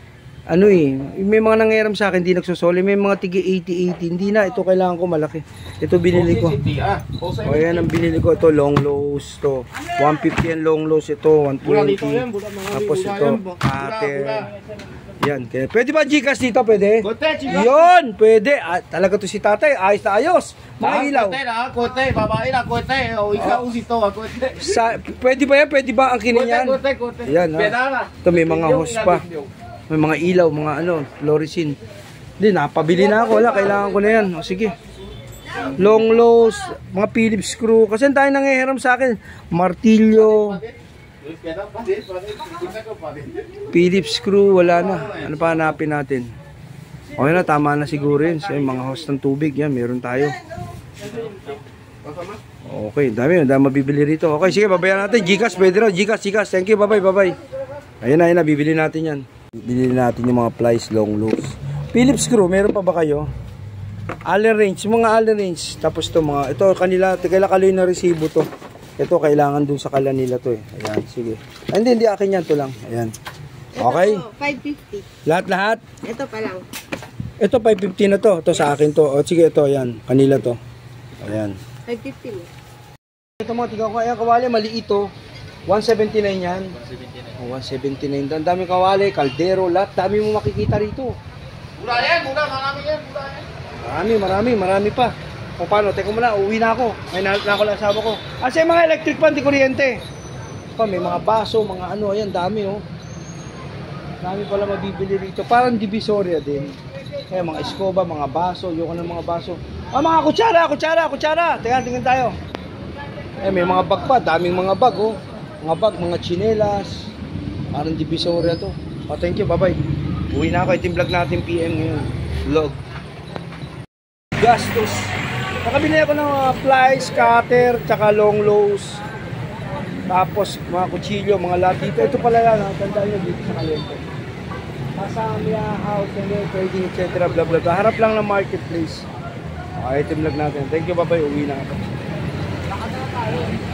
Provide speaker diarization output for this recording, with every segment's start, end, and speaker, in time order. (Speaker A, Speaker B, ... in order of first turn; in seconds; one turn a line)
Speaker A: 0.5-6.6
Speaker B: 6.2-7.7
Speaker A: 7.4-14.5
Speaker B: 11.6-14.5
Speaker A: 15.2-21.4
Speaker B: 17.0-17.8
Speaker B: 20.8-24.6
Speaker A: 23.3-23.6
Speaker A: 24.5-29.2
Speaker B: 26.3-29.5
Speaker A: 29.9-31.8
Speaker A: 32.4-34.7
Speaker A: 35.8-40.6
Speaker B: 40.3-40.7
Speaker B: 41.2-43.4
Speaker A: 43.7-46.3
Speaker A: 47.2-50.4
Speaker B: 51.1-51.5
Speaker B: 52.0-52.4
Speaker A: 52.6-57.4
Speaker A: 58.0-63.3
Speaker A: 64.3-68.5
Speaker A: 69.0-73.1
Speaker A: 73.8-74.3
Speaker C: 73.8-75.1
Speaker A: 75.2-75.9
Speaker C: 76.0-76.6
Speaker A: 77.4-80.6
Speaker A: 81.2-81.6
Speaker C: 81.9-82.5
Speaker A: 83.4-85.1
Speaker A: 85.7-86.7
Speaker A: 87.4-91.1
Speaker B: 91.8-93.4
Speaker A: 93.8-100.0
Speaker A: 100.8-102.8
Speaker A: 104.2-106.7
Speaker A: 107.3-112.3
Speaker A: 113.4-117.1
Speaker A: 117.7-119.8
Speaker A: 120.3-122.8
Speaker A: 124.4-129.0
Speaker A: 130.1-134.1
Speaker A: 135.0-139.0
Speaker A: 139.8-141.9
Speaker B: 142.9-143.5